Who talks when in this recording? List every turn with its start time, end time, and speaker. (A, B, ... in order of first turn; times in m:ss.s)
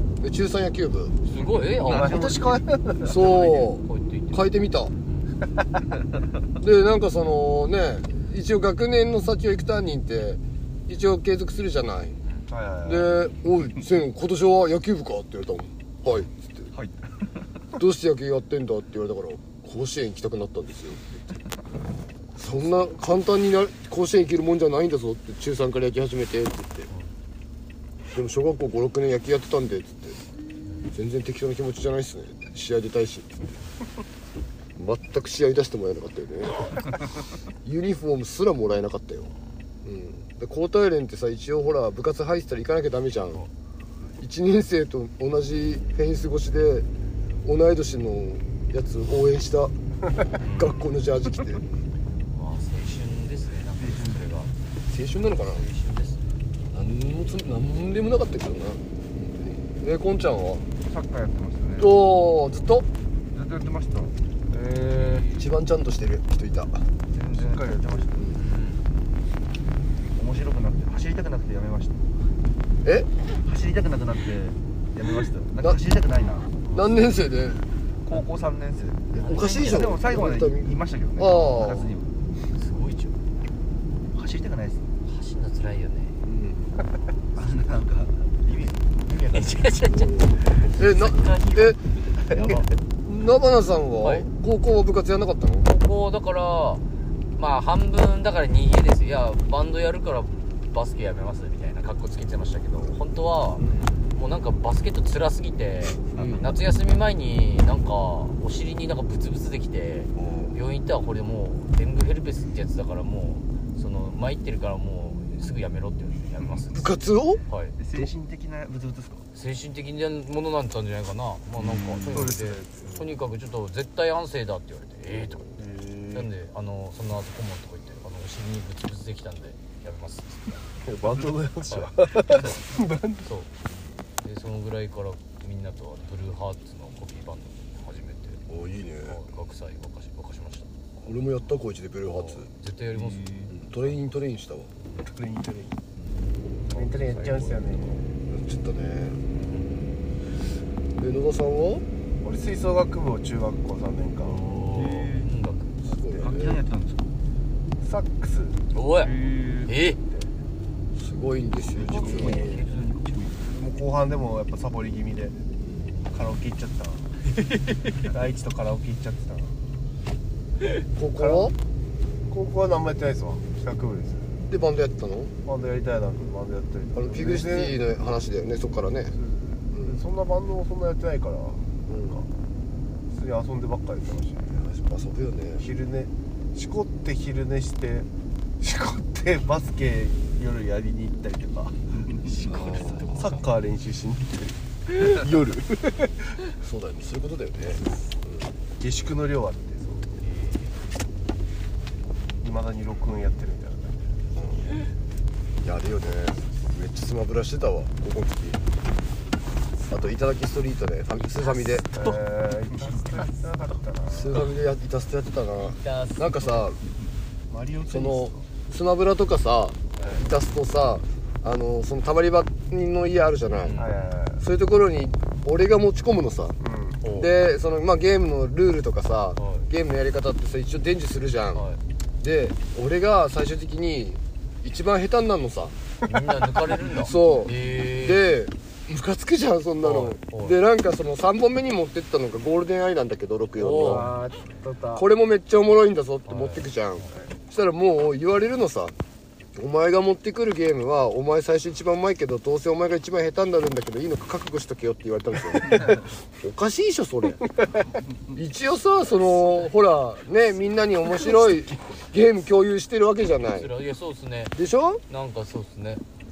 0:00.2-0:01.2 A
0:01.2-0:02.6 B
0:01.8-0:03.4 C
0:03.0-0:04.9 A
0:03.5-0:05.3 B
0:06.6-0:12.2 A
0:12.5-0:13.2 C
0:12.8-0:16.7 A
0:17.8-0:21.0 A
0:22.4-0:26.9 A
0:28.1-0:30.2 A
0:30.6-0:30.9 B
0:30.9-0:33.4 A
0:34.8-0:36.7 A
0:37.6-0:39.3 A
0:39.8-0:43.4 A
0:44.2-0:46.9 A
0:47.4-0:49.7 A
0:50.4-0:50.8 B
0:50.5-0:51.7 A
0:52.3-0:54.5 B
0:53.8-0:54.2 D
0:54.9-0:55.6 A
0:55.2-0:56.2 B
0:56.7-1:00.7 A
1:00.8-1:02.0 D
1:01.8-1:02.9 A
1:03.3-1:04.1 D
1:04.5-1:05.4 C
1:05.3-1:06.9 A
1:07.1-1:08.0 D
1:07.2-1:08.2 C
1:08.1-1:08.4 A
1:08.4-1:08.9 B
1:10.1-1:12.0 D
1:12.8-1:13.1 A
1:13.4-1:16.6 D
1:16.7-1:17.0 B
1:16.7-1:17.7 A
1:18.0-1:22.1 D
1:19.1-1:20.0 B
1:19.2-1:21.9 A
1:22.5-1:23.2 B
1:24.1-1:24.8 D
1:25.0-1:26.2 B
1:26.2-1:26.8 A
1:27.4-1:29.6 D
1:29.3-1:30.8 B
1:30.7-1:31.8 A
1:31.1-1:31.5 D
1:32.3-1:32.6 C
1:33.0-1:35.8 A
1:34.0-1:34.3 B
1:35.7-1:36.8 B
1:37.4-1:56.9 B
1:43.6-1:43.9 A
1:46.2-1:46.5 A
1:50.2-1:50.6 A
1:56.7-1:57.4 A
1:57.5-1:57.8 B
1:57.8-1:59.2 D
1:59.3-2:10.4 B
2:01.6-2:02.4 D
2:02.1-2:03.2 C
2:05.1-2:05.4 A
2:05.6-2:06.3 C
2:10.8-2:13.3 C
2:11.7-2:12.2 B
2:13.2-2:13.5 B
2:14.2-2:18.4 B
2:18.5-2:19.2 A
2:19.0-2:20.7 B
2:21.0-2:22.5 A
2:22.1-2:23.3 B
2:22.9-2:23.5 D
2:23.5-2:24.7 A
2:25.0-2:25.8 C
2:26.7-2:27.8 B
2:26.7-2:28.1 C
2:28.3-2:29.2 A
2:29.3-2:30.0 B
2:31.0-2:31.8 A
2:32.2-2:34.5 C
2:34.3-2:35.8 B
2:34.3-2:35.3 D
2:35.8-2:36.6 A
2:36.2-2:37.2 D
2:37.8-2:38.6 C
2:38.7-2:40.0 B
2:39.0-2:39.7 D
2:41.0-2:42.6 A
2:41.8-2:43.3 B
2:41.8-2:43.4 D
2:41.8-2:42.6 C
2:43.5-2:45.4 C
2:46.1-2:47.1 C
2:47.3-2:48.0 B
2:48.1-2:49.5 C
2:51.0-2:51.6 A
2:51.2-2:51.5 C
2:52.3-2:54.4 C
2:54.4-2:55.3 A
2:55.4-2:57.8 C
2:57.0-2:59.2 A
2:59.2-3:02.2 C
2:59.7-3:00.0 A
3:01.9-3:02.2 A
3:03.1-3:04.5 C
3:04.5-3:05.7 A
3:05.6-3:08.1 C
3:08.6-3:11.8 C
3:11.9-3:13.3 D
3:12.4-3:16.4 C
3:12.5-3:13.2 A
3:16.6-3:18.5 A
3:18.8-3:20.1 C
3:20.1-3:20.8 B
3:22.4-3:24.2 C
3:24.3-3:24.6 A
3:25.6-3:28.6 A
3:29.9-3:31.9 A
3:31.9-3:34.4 C
3:34.1-3:36.8 A
3:35.7-3:36.5 B
3:37.5-3:38.4 C
3:37.9-3:43.8 A
3:43.6-3:44.1 B
3:43.8-3:44.5 C
3:44.4-3:46.6 A
3:46.6-3:47.0 C
3:47.0-3:47.3 B
3:47.2-3:51.6 A
3:49.4-3:49.7 B
3:51.5-3:51.8 B
3:52.2-3:55.8 A
3:56.1-3:58.3 B
3:57.0-4:04.1 A
3:59.8-4:00.6 B
4:03.6-4:04.1 B
4:03.8-4:05.0 C
4:05.0-4:08.9 A
4:06.3-4:06.8 B
4:09.6-4:17.4 A
4:18.3-4:23.7 A
4:23.4-4:24.6 B
4:24.6-4:25.0 A
4:25.1-4:26.0 B